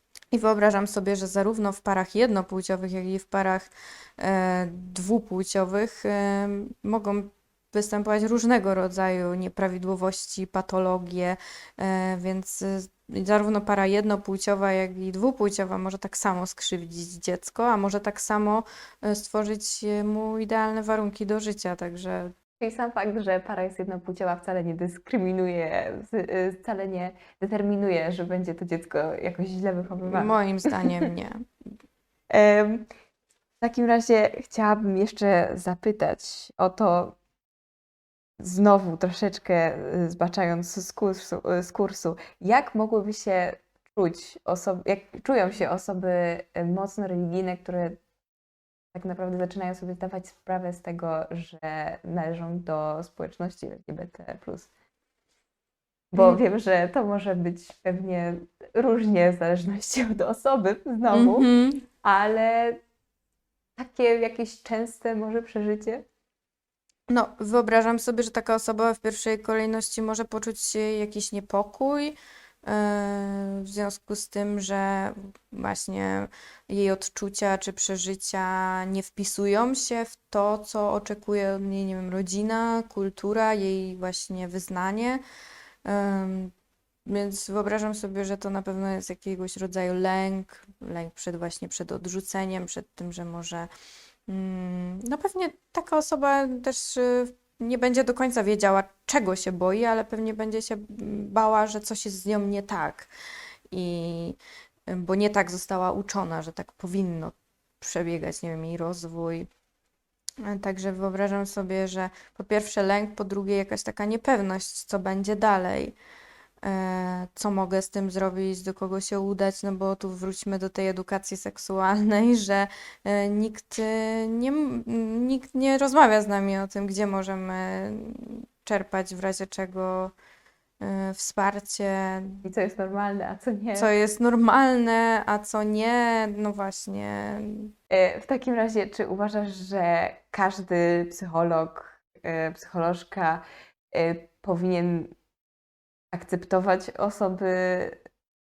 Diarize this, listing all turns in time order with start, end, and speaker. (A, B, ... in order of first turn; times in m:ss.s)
0:00.3-0:22.3 A
0:22.6-0:31.0 B
0:30.0-0:31.4 A
0:32.3-0:32.9 B
0:33.6-0:37.2 B
0:38.4-0:48.0 B
0:48.9-0:54.7 B
0:56.1-1:01.5 B
1:01.1-1:01.8 A
1:02.0-1:02.8 B
1:03.8-1:06.0 B
1:07.1-1:25.2 A
1:25.8-1:26.5 A
1:27.0-1:33.7 A
1:34.3-1:43.1 A
1:43.7-1:44.4 A
1:44.9-1:49.5 A
1:50.4-1:55.9 A
1:56.6-2:10.1 A
2:10.8-2:12.4 A
2:12.4-2:13.9 B
2:13.8-2:17.7 A
2:17.9-2:25.1 B
2:26.1-2:28.0 B